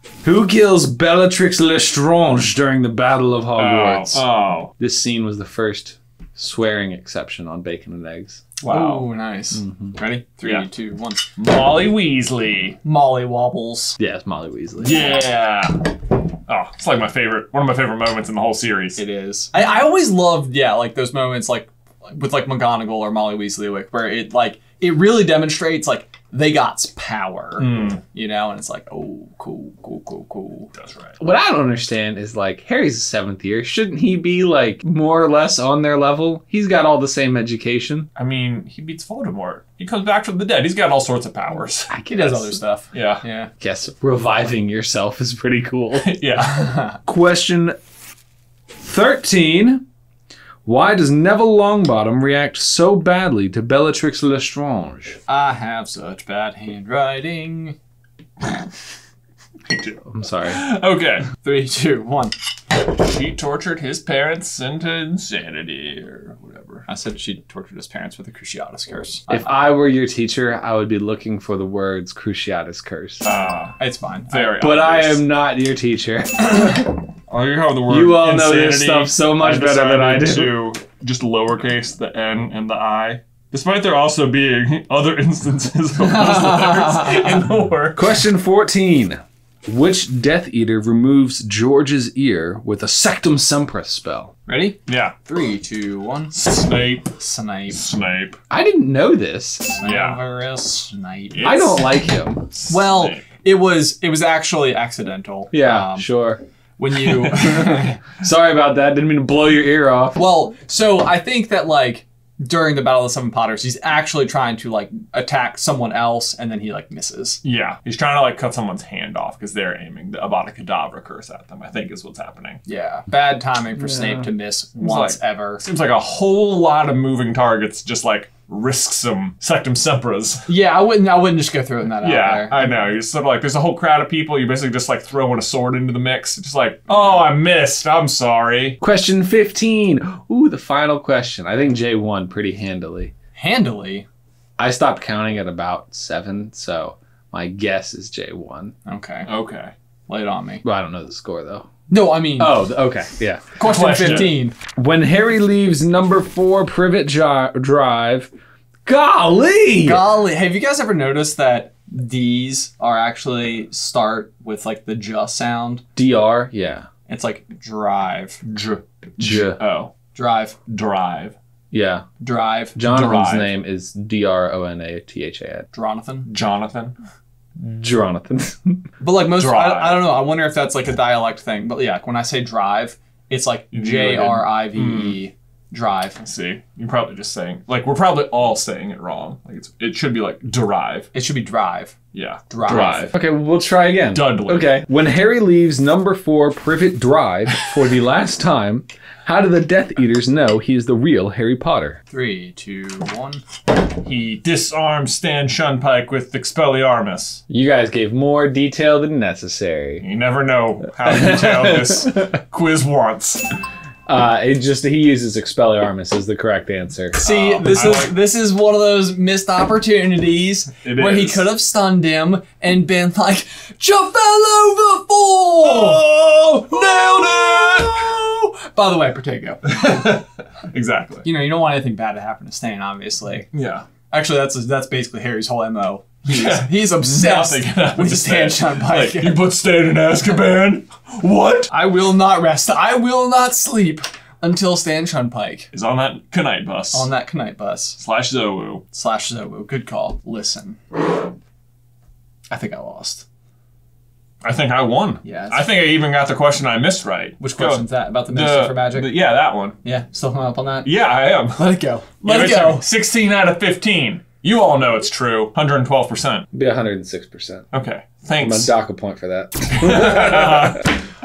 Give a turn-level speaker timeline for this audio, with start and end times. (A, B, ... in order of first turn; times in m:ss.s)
0:00.2-0:04.2 A
0:03.6-0:04.7 B
0:04.8-0:08.5 A
0:08.6-0:09.1 B
0:08.6-0:11.2 C
0:09.5-0:10.0 A
0:11.4-0:12.8 B
0:12.8-0:14.0 C
0:14.0-0:15.2 A
0:14.8-0:19.0 B
0:19.0-0:30.7 C
0:27.6-0:28.0 B
0:30.7-0:31.2 B
0:31.2-0:38.1 A
0:38.2-0:41.9 B
0:41.9-0:42.6 A
0:42.0-0:43.5 C
0:42.9-0:43.2 B
0:43.6-0:46.1 A
0:46.0-0:46.8 B
0:46.6-0:47.0 C
0:47.0-0:47.7 A
0:48.8-0:49.8 A
0:50.6-0:55.2 A
0:55.3-0:57.8 C
0:59.7-1:01.3 B
1:00.1-1:00.6 A
1:01.4-1:02.3 C
1:02.7-1:06.8 B
1:06.9-1:09.5 C
1:09.3-1:13.2 A
1:13.2-1:13.8 B
1:13.8-1:14.6 C
1:14.3-1:15.2 B
1:14.6-1:17.0 A
1:17.3-1:28.2 B
1:17.9-1:20.5 A
1:26.0-1:27.4 C
1:27.9-1:34.3 A
1:34.4-1:36.4 C
1:34.9-1:35.1 B
1:36.3-1:37.1 B
1:37.0-1:37.8 C
1:37.7-1:38.4 B
1:38.5-1:39.7 A
1:39.6-1:40.2 B
1:39.8-1:41.7 C
1:41.3-1:41.9 B
1:41.4-1:42.5 A
1:42.5-1:43.2 B
1:42.7-1:46.1 C
1:45.5-1:46.4 A
1:46.8-1:48.0 C
1:47.3-1:47.6 B
1:47.3-1:50.2 A
1:50.2-1:57.4 C
1:57.4-2:02.6 B
2:02.6-2:05.6 C
2:04.8-2:10.5 B
2:10.5-2:12.7 C
2:12.0-2:18.8 B
2:18.8-2:23.1 A
2:23.3-2:24.1 C
2:24.6-2:28.7 A
2:28.8-2:29.3 C
2:29.3-2:29.7 B
2:30.1-2:30.6 C
2:30.6-2:31.7 A
2:31.9-2:32.6 C
2:32.4-2:33.4 A
2:33.6-2:34.6 C
2:33.6-2:34.4 B
2:34.0-2:38.3 A
2:38.8-2:40.2 A
2:39.8-2:45.8 C
2:46.0-2:46.9 A
2:47.1-2:48.4 C
2:48.4-2:49.9 B
2:49.2-2:49.6 A
2:50.1-2:50.6 C
2:50.7-2:51.4 B
2:51.7-2:52.0 A
2:52.2-2:52.8 C
2:52.7-2:55.7 A
2:52.8-2:53.6 B
2:55.7-2:56.3 C
2:56.3-2:56.9 B
2:57.6-2:58.8 A
2:59.0-3:06.2 C
2:59.4-3:00.1 B
3:03.7-3:05.2 B
3:06.2-3:11.1 B
3:11.1-3:12.0 C
3:12.1-3:13.1 B
3:12.5-3:13.1 C
3:12.7-3:22.0 A
3:14.1-3:14.8 B
3:22.1-3:23.4 C
3:24.0-3:27.4 B
3:27.5-3:30.0 A
3:30.0-3:33.4 B
3:31.0-3:32.4 A
3:34.1-3:37.2 A
3:37.2-3:50.0 C
3:37.2-3:38.1 B
3:40.8-3:41.5 B
3:45.6-3:47.6 B
3:49.7-3:51.2 B
3:51.2-3:53.5 C
3:53.5-3:53.8 B
3:54.1-3:59.4 C
3:56.2-4:01.7 B
4:01.7-4:05.7 C
4:05.7-4:07.1 B
4:06.9-4:08.0 C
4:08.0-4:08.8 B
4:08.9-4:11.2 C
4:12.5-4:13.2 C
4:14.4-4:19.8 B
4:15.2-4:15.7 C
4:17.4-4:19.2 C
4:19.8-4:20.9 C
4:20.8-4:21.7 B
4:21.5-4:22.8 C
4:22.2-4:26.4 B
4:26.5-4:27.7 A
4:27.7-4:28.7 B
4:28.4-4:30.9 A
4:29.7-4:30.9 B